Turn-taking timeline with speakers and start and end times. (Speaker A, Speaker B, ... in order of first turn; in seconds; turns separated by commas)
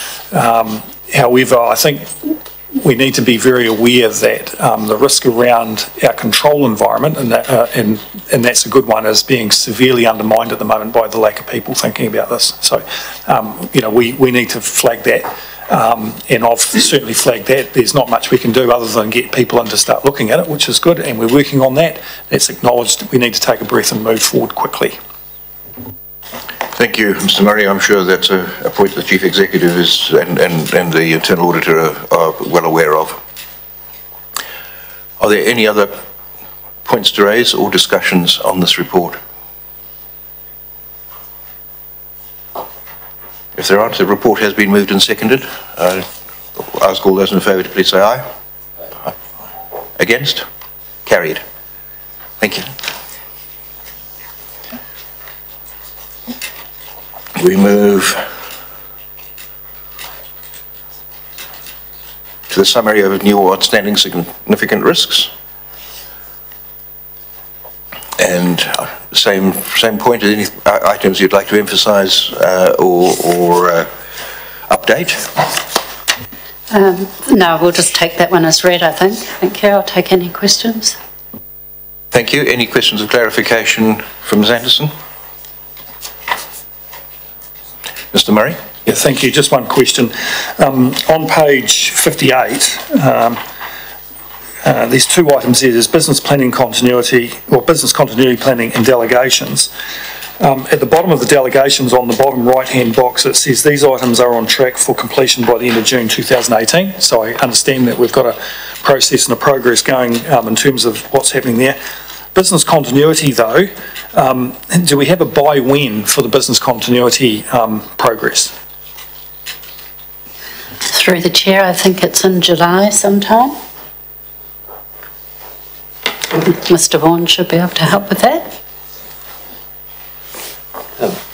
Speaker A: 0.3-25.0, Speaker B: 26.7-33.2, Speaker B: 35.2-36.0, Speaker B: 36.8-39.2, Speaker B: 43.5-48.3, Speaker B: 50.0-50.5, Speaker B: 51.0-51.4, Speaker B: 52.4-52.7, Speaker B: 57.3-58.2, Speaker B: 62.5-65.3, Speaker B: 68.2-73.9, Speaker B: 74.7-75.4, Speaker C: 76.7-81.0, Speaker B: 82.1-84.9, Speaker B: 88.1-88.6, Speaker A: 88.8-93.4, Speaker A: 94.6-99.7, Speaker A: 100.4-111.8, Speaker A: 112.3-118.5, Speaker C: 120.9-123.6, Speaker C: 126.4-128.6